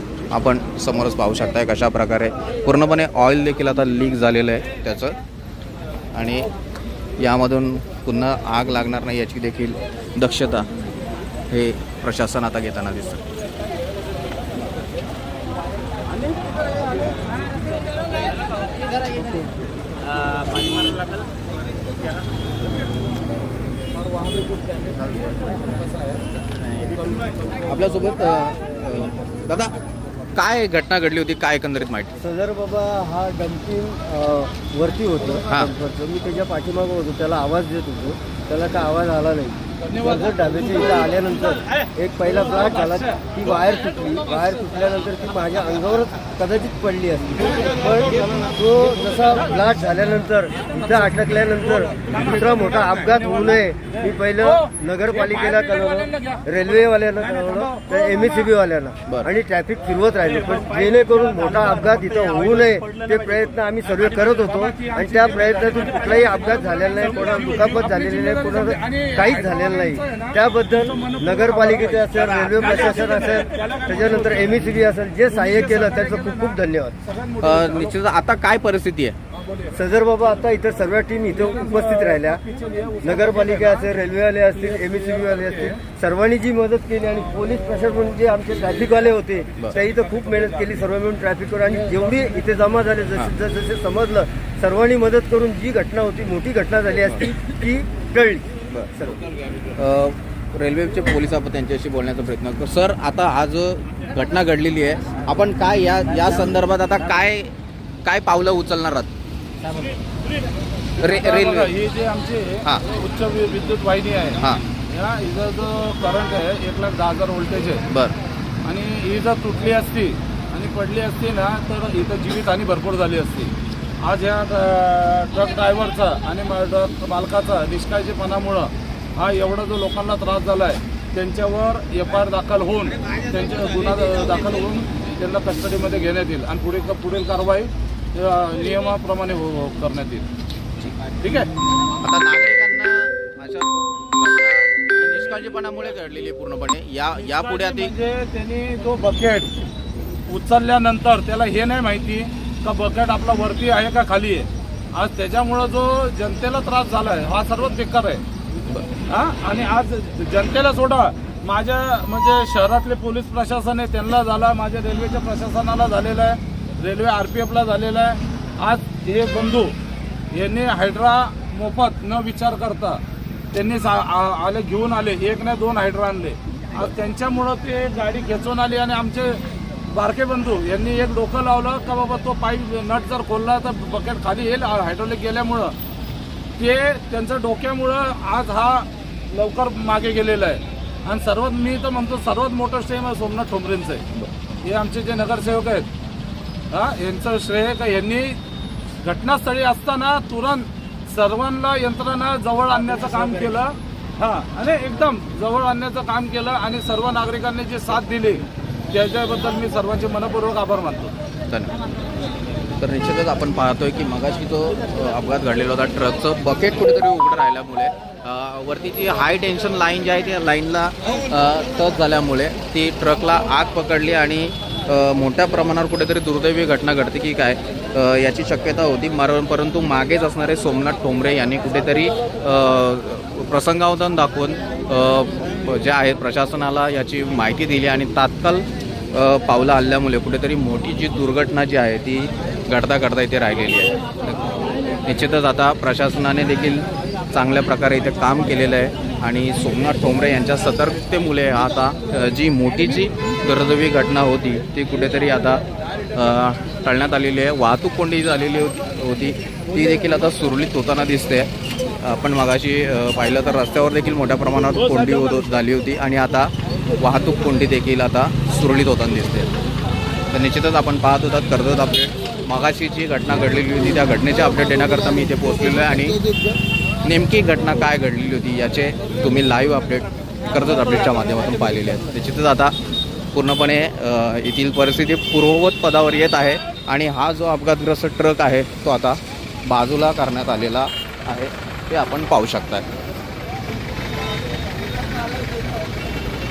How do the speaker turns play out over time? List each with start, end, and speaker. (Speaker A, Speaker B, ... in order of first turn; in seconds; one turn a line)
Speaker A: 0.3-5.2
Speaker A: 6.1-6.5
Speaker A: 7.2-10.7
Speaker A: 11.5-13.2
Speaker A: 27.7-29.7
Speaker A: 30.4-32.2
Speaker B: 32.2-77.0
Speaker C: 39.9-40.3
Speaker C: 52.0-53.5
Speaker C: 54.6-56.4
Speaker C: 64.2-74.7
Speaker C: 75.3-78.0
Speaker A: 77.4-79.2
Speaker B: 79.7-82.4
Speaker C: 81.5-83.9
Speaker B: 83.0-99.2
Speaker C: 84.7-85.8
Speaker A: 99.8-107.5
Speaker A: 108.0-109.1
Speaker A: 111.0-111.7
Speaker C: 111.0-117.8
Speaker A: 117.9-118.2
Speaker C: 118.6-140.3
Speaker C: 141.2-141.5
Speaker A: 142.0-147.9
Speaker C: 147.2-149.5
Speaker C: 150.3-158.2
Speaker C: 159.1-169.8
Speaker C: 170.3-173.0
Speaker C: 173.5-185.8
Speaker C: 186.6-194.0
Speaker C: 194.6-195.9
Speaker C: 196.7-198.4
Speaker C: 199.0-211.1
Speaker A: 211.5-211.8
Speaker A: 212.8-255.6
Speaker A: 256.1-261.5
Speaker A: 262.0-269.5
Speaker A: 270.3-276.2
Speaker A: 277.0-282.7
Speaker A: 283.3-292.9